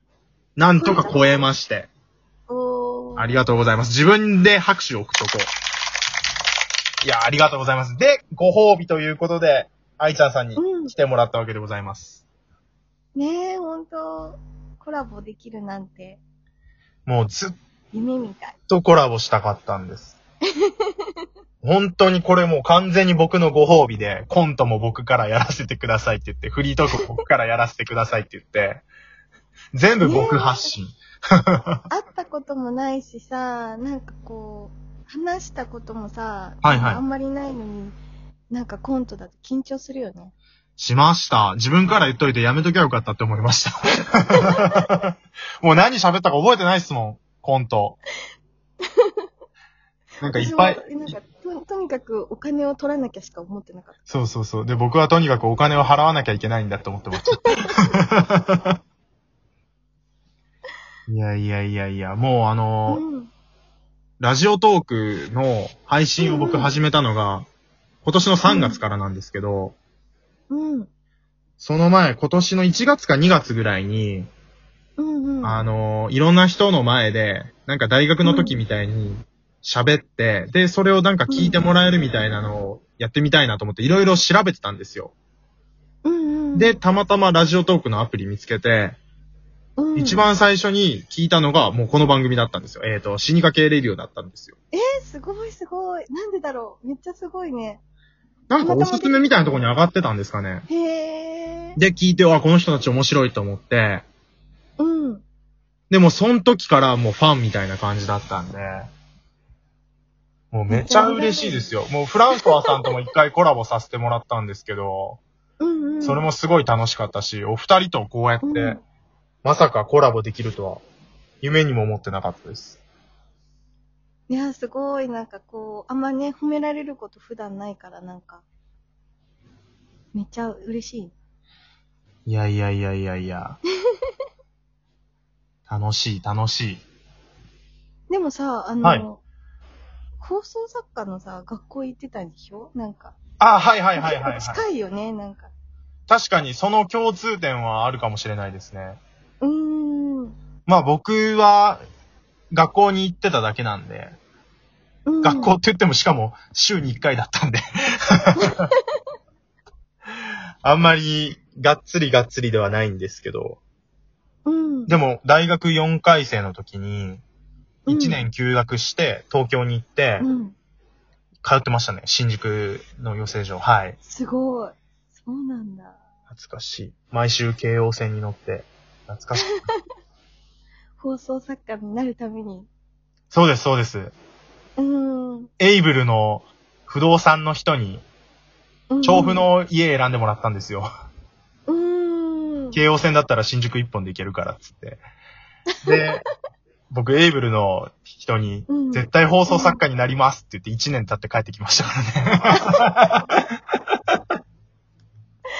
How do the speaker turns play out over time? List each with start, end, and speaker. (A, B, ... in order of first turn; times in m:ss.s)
0:00.6-0:01.9 A
0:00.8-0:01.4 B
0:02.5-0:03.4 B
0:03.2-0:05.5 A
0:07.0-0:12.2 A
0:10.6-0:10.9 B
0:13.1-0:16.2 B
0:17.0-0:17.5 A
0:17.9-0:18.6 B
0:18.7-0:20.2 A
0:21.6-0:28.8 A
0:29.7-0:31.8 A
0:30.0-0:30.7 B
0:31.9-0:38.0 B
0:36.6-0:37.0 A
0:38.5-0:40.3 B
0:40.8-0:48.0 A
0:44.4-0:44.8 B
0:48.9-0:49.2 B
0:50.2-0:50.8 A
0:50.2-0:54.0 B
0:54.1-0:58.8 A
1:01.1-1:03.0 A
1:02.9-1:03.3 B
1:04.2-1:07.4 A
1:06.2-1:06.7 B
1:08.0-1:09.8 A
1:08.5-1:08.8 B
1:10.5-1:10.9 B
1:11.6-1:14.3 A
1:15.0-1:15.6 B
1:15.4-1:25.1 A
1:18.2-1:18.6 B
1:21.3-1:21.6 B
1:26.0-1:26.8 B
1:26.5-1:29.0 A
1:29.8-1:30.3 B
1:30.0-1:34.5 A
1:34.7-1:37.8 B
1:38.5-1:40.6 A
1:38.6-1:39.4 B
1:40.7-1:41.8 B
1:41.8-1:44.0 A
1:44.8-1:45.2 B
1:45.9-1:48.9 A
1:50.5-1:55.2 A
1:50.7-1:51.6 B
1:55.6-1:56.2 B
1:56.0-1:58.8 A
1:58.4-1:58.8 B
1:59.4-2:00.8 A
2:01.4-2:02.8 A
2:04.3-2:08.4 B
2:10.1-2:11.1 B
2:12.2-2:13.6 A
2:15.7-2:16.8 A
2:18.1-2:19.2 B
2:18.8-2:19.1 A
2:20.2-2:23.2 B
2:23.4-2:24.6 A
2:24.0-2:25.5 B
2:26.1-2:29.0 A
2:29.4-2:30.3 B
2:30.6-2:31.8 A
2:32.5-2:34.2 A
2:35.1-2:35.5 B
2:35.2-2:38.6 A
2:40.6-2:43.6 A
2:44.4-2:44.9 B
2:44.9-2:47.2 A
2:47.9-2:48.2 B
2:47.9-2:50.3 A
2:50.2-2:50.5 B
2:51.4-2:54.0 A
2:54.0-2:56.0 B
2:56.3-2:59.5 A
2:59.4-2:59.8 B
3:01.0-3:02.7 B
3:03.3-3:04.1 A
3:04.8-3:05.5 B
3:05.6-3:08.0 A
3:08.9-3:09.4 B
3:09.0-3:10.9 A
3:11.7-3:12.8 B
3:12.7-3:15.0 A
3:15.8-3:16.2 A
3:16.9-3:23.2 A
3:18.7-3:19.8 B
3:22.5-3:22.8 B